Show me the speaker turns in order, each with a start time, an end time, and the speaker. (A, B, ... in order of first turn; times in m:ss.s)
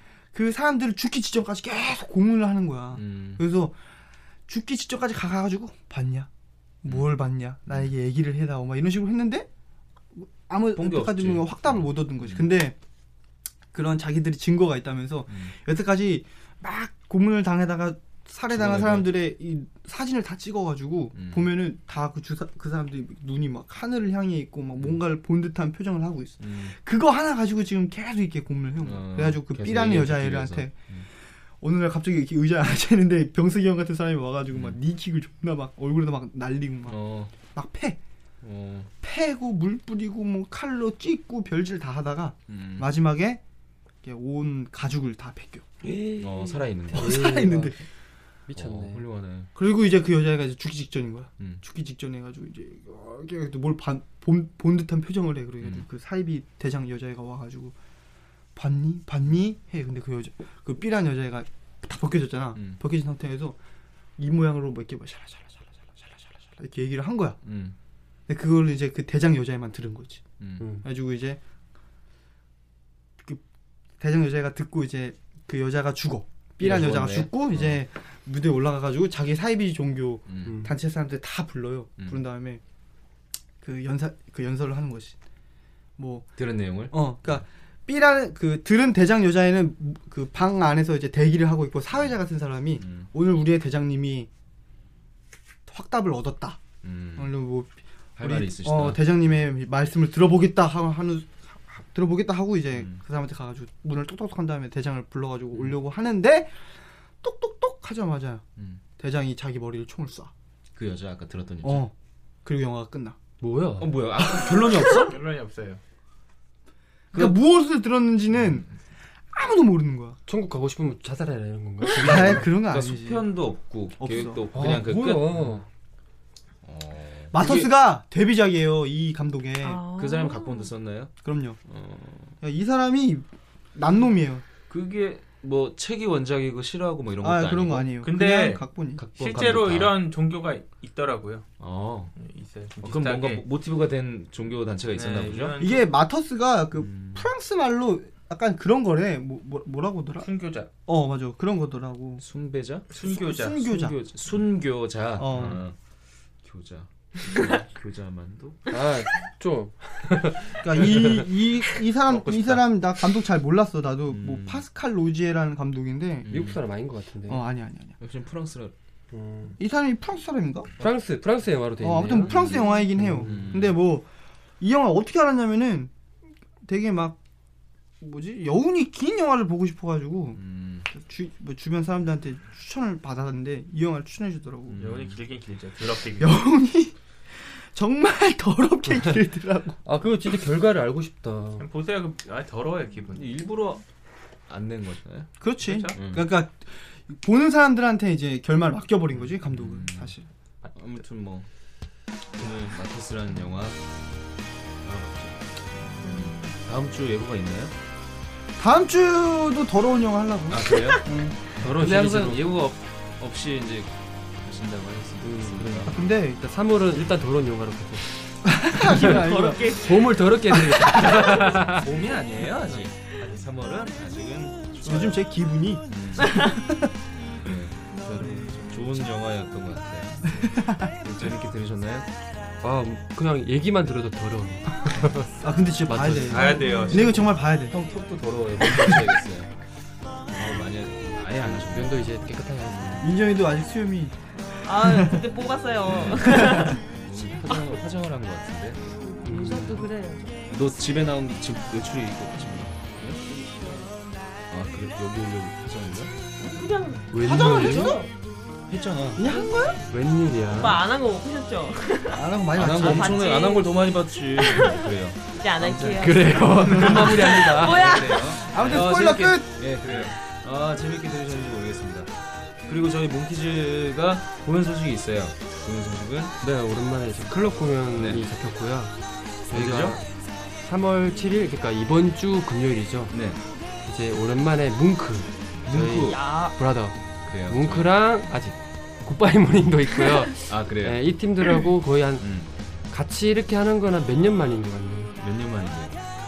0:00.3-0:03.8 A
0:02.9-0:03.4 B
0:04.5-0:06.3 A
0:06.8-0:09.5 A
0:06.8-0:07.1 B
0:10.1-0:12.8 A
0:10.8-0:12.5 B
0:13.7-0:30.9 A
0:15.3-0:15.6 B
0:18.5-0:19.1 B
0:21.1-0:21.5 B
0:26.4-0:26.8 B
0:28.8-0:31.1 B
0:31.6-0:38.0 A
0:34.5-0:34.8 B
0:36.9-0:37.3 B
0:38.4-0:38.9 B
0:39.0-0:43.4 A
0:42.5-0:42.9 B
0:44.0-0:45.7 A
0:45.9-0:46.6 C
0:46.2-0:47.4 B
0:46.9-0:47.8 A
0:46.9-0:47.8 D
0:48.5-0:49.0 D
0:48.6-0:49.5 B
0:49.6-0:57.8 A
0:55.6-0:55.9 B
0:58.6-1:03.6 A
1:02.6-1:02.8 B
1:04.2-1:07.4 A
1:07.4-1:07.8 B
1:08.3-1:10.2 A
1:10.4-1:10.7 B
1:10.6-1:10.8 D
1:10.8-1:11.4 A
1:14.0-1:22.6 A
1:16.6-1:17.8 B
1:20.3-1:20.6 B
1:20.4-1:20.7 D
1:23.6-1:25.2 A
1:26.0-1:26.4 A
1:26.4-1:27.4 B
1:26.9-1:34.3 A
1:32.8-1:33.1 B
1:35.7-1:46.6 A
1:36.8-1:37.3 B
1:38.2-1:39.4 B
1:42.7-1:43.0 B
1:45.5-1:45.8 B
1:47.2-1:48.4 A
1:48.6-1:48.8 B
1:49.0-1:50.3 A
1:50.8-1:51.9 B
1:51.6-1:53.2 A
1:53.4-1:54.0 D
1:53.8-1:55.2 B
1:54.8-1:55.8 E
1:57.1-1:58.7 A
1:59.3-2:00.2 A
2:00.3-2:02.5 D
2:02.0-2:05.6 B
2:02.0-2:03.3 A
2:04.0-2:04.5 A
2:04.5-2:05.6 D
2:06.6-2:07.7 B
2:07.3-2:09.9 A
2:09.6-2:10.7 C
2:09.9-2:12.4 B
2:11.2-2:11.6 A
2:12.4-2:14.4 A
2:14.7-2:18.0 B
2:17.2-2:19.0 A
2:18.0-2:21.5 E
2:19.0-2:20.0 B
2:21.6-2:22.2 B
2:22.2-2:23.4 E
2:22.8-2:25.6 B
2:24.9-2:25.9 E
2:25.6-2:30.3 A
2:26.8-2:27.3 B
2:30.2-2:30.7 E
2:30.9-2:32.2 A
2:32.2-2:32.9 B
2:32.9-2:33.7 E
2:33.0-2:34.0 A
2:33.5-2:35.8 B
2:35.2-2:35.6 A
2:36.4-2:38.6 B
2:38.7-2:41.2 D
2:40.6-2:46.3 A
2:42.1-2:42.6 E
2:44.1-2:44.6 B
2:46.2-2:46.6 B
2:46.3-2:47.4 D
2:47.3-2:48.0 A
2:48.0-2:48.7 B
2:49.1-2:49.6 D
2:49.6-2:50.7 A
2:50.8-2:53.5 D
2:51.8-2:54.1 A
2:52.2-2:53.8 B
2:54.6-2:55.9 A
2:56.6-2:57.2 A
2:58.0-3:04.8 A
3:00.4-3:00.9 B
3:04.7-3:05.2 B
3:04.8-3:06.4 E
3:06.2-3:09.8 A
3:09.8-3:11.6 D
3:11.6-3:13.3 E
3:13.1-3:13.8 B
3:14.5-3:15.3 B
3:15.4-3:20.3 A
3:15.6-3:16.0 E
3:15.9-3:16.2 B
3:19.2-3:20.1 B
3:20.6-3:20.9 E
3:20.8-3:21.5 B
3:22.3-3:23.8 B
3:24.8-3:27.7 B
3:26.0-3:26.5 C
3:28.6-3:31.4 A
3:30.5-3:31.0 B
3:31.6-3:32.4 D
3:31.6-3:36.0 B
3:35.2-3:38.1 D
3:35.9-3:36.7 A
3:38.4-3:39.8 A
3:38.7-3:39.2 D
3:38.9-3:41.1 C
3:39.7-3:41.8 D
3:41.4-3:45.2 B
3:44.8-3:46.9 A
3:45.9-3:46.6 B
3:46.2-3:46.6 C
3:47.1-3:52.1 B
3:48.1-3:48.6 A
3:50.3-3:50.9 A
3:52.6-3:56.9 D
3:55.4-3:57.8 A
3:56.3-3:57.3 E
3:56.8-3:59.5 B
3:58.6-3:59.0 A
4:00.3-4:02.1 B
4:01.6-4:03.1 D
4:03.0-4:05.2 A
4:04.6-4:06.8 C
4:05.8-4:08.8 B
4:06.2-4:06.8 A
4:09.2-4:09.8 D
4:09.2-4:10.4 C
4:10.5-4:13.2 B
4:13.2-4:14.0 C
4:14.5-4:16.2 B
4:16.4-4:18.1 C
4:17.1-4:18.0 D
4:17.2-4:18.1 A
4:18.7-4:19.2 B
4:19.2-4:19.8 A
4:19.2-4:19.8 C
4:19.9-4:20.8 D
4:20.5-4:28.5 C
4:22.1-4:23.2 A
4:22.5-4:36.4 B
4:25.9-4:27.9 D
4:28.4-4:29.6 A
4:29.8-4:30.1 E
4:36.4-4:38.9 D
4:38.0-4:38.2 B
4:39.5-4:40.0 D
4:39.5-4:40.0 B
4:40.6-4:43.2 D
4:43.1-4:43.4 B
4:43.9-4:52.3 D
4:45.7-4:46.3 B
4:46.0-4:46.6 C
4:47.3-4:47.9 B
4:50.5-4:51.2 B
4:52.2-4:52.5 B
4:52.9-4:55.2 D
4:55.2-4:56.0 B